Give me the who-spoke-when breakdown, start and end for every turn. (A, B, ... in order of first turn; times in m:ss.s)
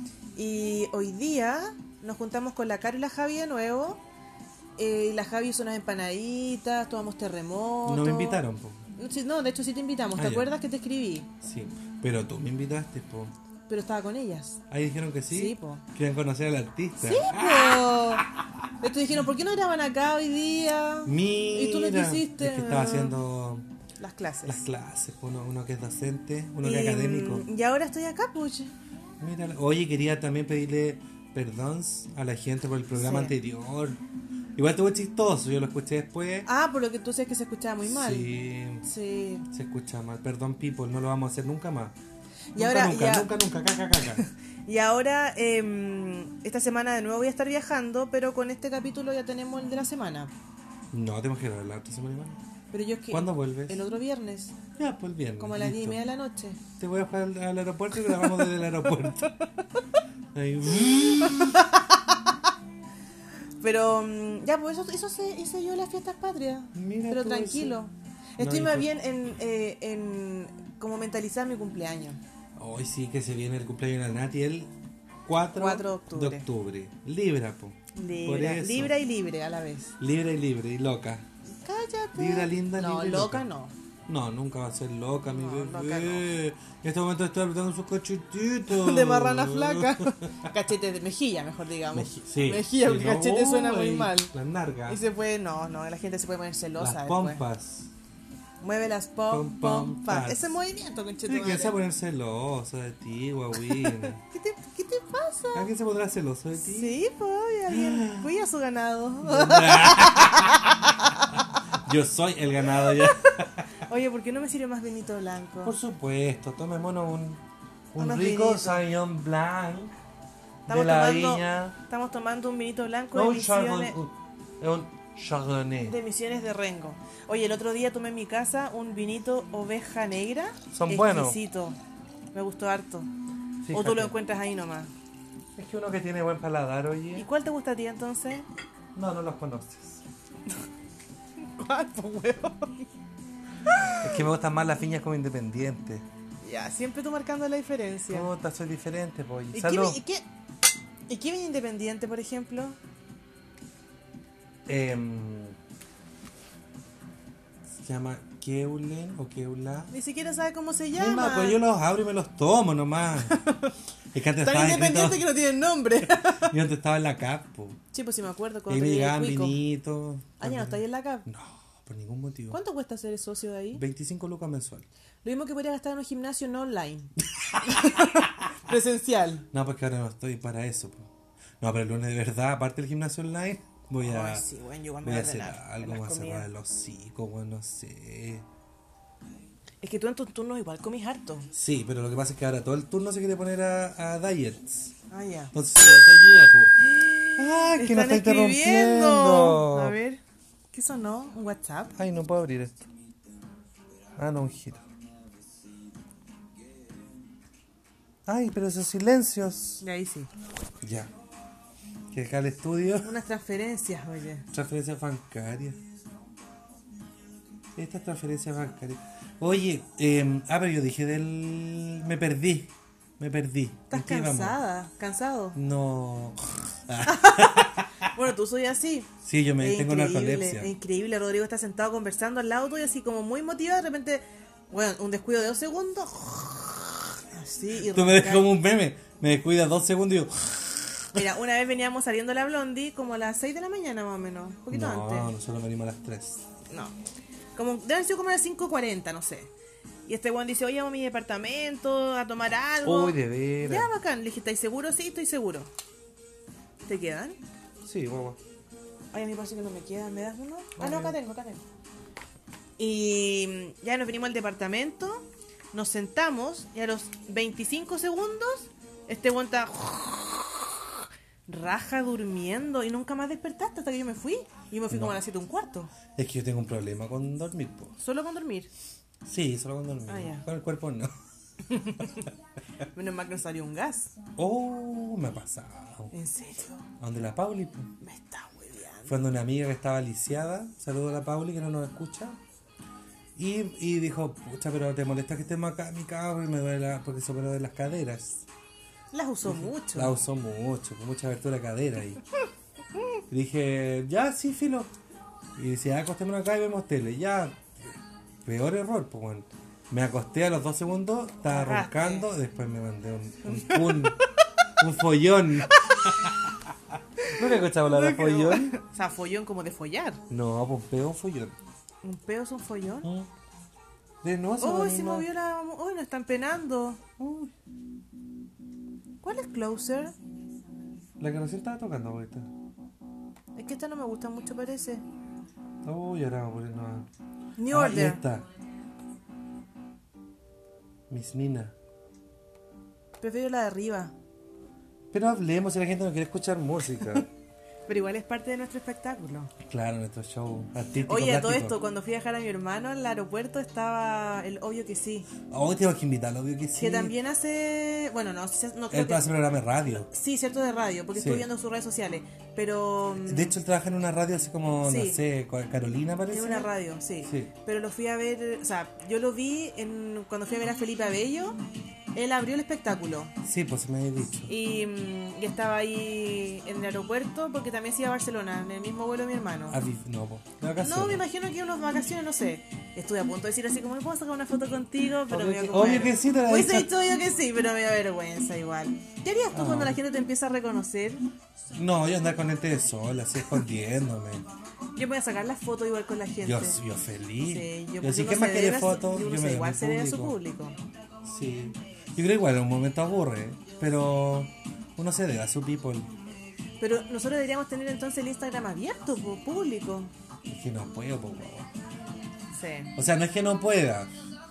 0:00.4-0:04.0 A
0:04.8-0:08.4 A
0:07.8-0:08.8 B
0:09.0-0:11.3 A
0:10.2-0:10.5 B
0:11.4-0:13.3 B
0:13.7-0:14.6 A
0:14.7-0:18.6 B
0:15.3-0:15.8 A
0:17.0-0:18.2 A
0:18.8-0:23.1 A
0:21.0-0:23.6 B
0:24.0-0:24.6 A
0:24.4-0:27.4 B
0:26.6-0:28.7 A
0:29.2-0:34.0 B
0:33.0-0:33.3 A
0:34.6-0:36.5 B
0:36.4-0:38.3 A
0:37.8-0:38.8 B
0:38.8-0:39.4 A
0:39.5-0:41.9 B
0:42.5-0:43.3 A
0:42.5-0:44.2 B
0:44.2-0:50.3 A
0:50.9-0:52.4 B
0:52.7-0:54.5 A
0:53.1-0:53.8 B
0:54.8-0:56.0 B
0:55.4-0:56.6 A
0:56.8-0:59.3 B
0:58.2-0:58.4 A
1:00.3-1:01.6 B
1:01.3-1:02.3 A
1:03.6-1:12.2 A
1:06.7-1:07.8 B
1:08.4-1:08.9 B
1:12.6-1:14.7 B
1:15.2-1:18.9 B
1:15.5-1:16.4 A
1:17.9-1:19.9 A
1:20.0-1:21.3 B
1:21.6-1:23.7 A
1:22.2-1:23.4 B
1:24.1-1:30.3 B
1:25.3-1:26.3 A
1:28.7-1:34.3 A
1:31.9-1:35.0 B
1:34.9-1:37.4 A
1:36.8-1:37.9 B
1:38.6-1:41.7 A
1:39.3-1:40.6 B
1:41.2-1:44.2 B
1:43.8-1:45.7 A
1:45.5-1:47.0 B
1:46.6-1:51.6 A
1:47.7-1:48.3 B
1:49.2-1:50.6 B
1:51.8-1:53.7 B
1:53.7-1:55.7 A
1:55.6-1:57.4 B
1:57.9-1:59.9 B
1:58.0-1:58.8 A
2:00.7-2:01.8 B
2:00.7-2:03.9 A
2:03.1-2:06.0 B
2:05.8-2:11.8 A
2:10.7-2:11.4 B
2:12.3-2:13.1 A
2:13.6-2:14.2 B
2:13.7-2:14.9 A
2:15.6-2:17.3 B
2:17.1-2:18.4 A
2:18.9-2:20.0 B
2:21.6-2:22.9 A
2:23.7-2:24.1 A
2:24.0-2:26.0 B
2:26.4-2:28.3 A
2:28.1-2:30.0 B
2:29.5-2:30.2 A
2:31.1-2:32.8 A
2:34.6-2:35.6 B
2:37.8-2:39.9 B
2:39.9-2:41.6 A
2:41.0-2:43.4 B
2:43.2-2:43.7 A
2:44.1-2:45.3 B
2:44.4-2:46.5 A
2:46.4-2:47.8 B
2:47.9-2:49.6 A
2:48.7-2:52.6 B
2:50.4-2:51.2 A
2:52.5-2:53.8 A
2:53.7-2:54.8 B
2:55.2-2:59.4 A
2:59.5-3:01.1 B
3:01.6-3:04.4 B
3:04.0-3:06.5 A
3:05.0-3:08.4 B
3:09.8-3:11.5 A
3:11.5-3:15.0 B
3:15.1-3:15.5 A
3:15.5-3:16.7 B
3:16.8-3:20.2 A
3:17.4-3:20.0 B
3:20.7-3:21.9 A
3:21.9-3:22.9 B
3:24.1-3:24.8 B
3:28.2-3:29.8 B
3:29.8-3:30.3 A
3:30.8-3:31.1 B
3:32.1-3:33.1 B
3:33.0-3:34.5 A
3:34.5-3:35.8 B
3:37.8-3:44.6 B
3:43.9-3:45.6 A
3:45.5-3:48.1 B
3:47.0-3:58.5 A
3:49.2-3:50.7 B
3:57.9-4:01.2 B
4:01.1-4:05.3 A
4:04.7-4:06.4 B
4:07.5-4:09.5 A
4:10.1-4:15.7 A
4:12.8-4:13.9 B
4:16.8-4:17.4 A
4:17.8-4:18.4 B
4:19.1-4:21.6 A
4:20.8-4:21.2 B
4:22.8-4:30.6 A
4:31.5-4:35.9 A
4:34.9-4:35.2 B
4:36.2-4:38.0 B
4:38.0-4:38.7 A
4:39.2-4:41.1 B
4:40.1-4:40.4 A
4:41.7-4:42.3 A
4:42.9-4:44.1 A
4:44.4-4:46.1 B
4:46.1-4:46.8 A
4:47.0-4:47.9 B
4:48.0-4:49.1 A
4:49.0-4:52.4 B
4:53.4-4:58.5 B
4:59.1-5:00.1 A
4:59.4-5:02.2 B
5:03.3-5:04.9 B
5:05.6-5:14.2 B
5:11.5-5:12.3 A
5:13.4-5:14.1 A
5:14.8-5:16.3 B
5:17.2-5:20.2 A
5:17.3-5:18.8 B
5:20.3-5:21.5 B
5:22.0-5:23.1 A
5:23.0-5:23.3 B
5:24.2-5:25.3 B
5:24.6-5:27.0 A
5:27.2-5:27.5 B
5:29.2-5:30.1 A
5:31.2-5:32.5 B
5:33.5-5:35.0 A
5:35.8-5:37.1 B
5:37.6-5:38.2 A
5:37.7-5:38.4 B
5:41.1-5:41.7 B
5:43.2-5:44.1 A
5:45.1-5:47.3 B
5:47.9-5:49.5 A
5:49.6-5:51.8 B
5:51.0-5:55.3 A
5:55.4-5:57.1 B
5:56.7-5:59.3 A
5:58.9-6:00.1 B
5:59.8-6:03.5 A
6:01.1-6:01.5 B
6:03.2-6:06.7 B
6:04.8-6:05.2 A
6:06.3-6:11.6 A
6:07.2-6:07.5 B
6:12.1-6:13.3 A
6:13.4-6:14.5 B
6:14.5-6:19.8 A
6:19.7-6:21.2 B
6:20.8-6:31.2 A
6:25.3-6:26.9 B
6:29.5-6:30.0 B
6:31.7-6:34.4 B
6:35.0-6:36.8 A
6:36.4-6:40.4 B
6:37.4-6:40.8 A
6:41.2-6:46.1 B
6:46.8-6:50.1 A
6:50.4-6:51.7 B
6:52.5-6:52.9 A
6:53.0-6:54.1 B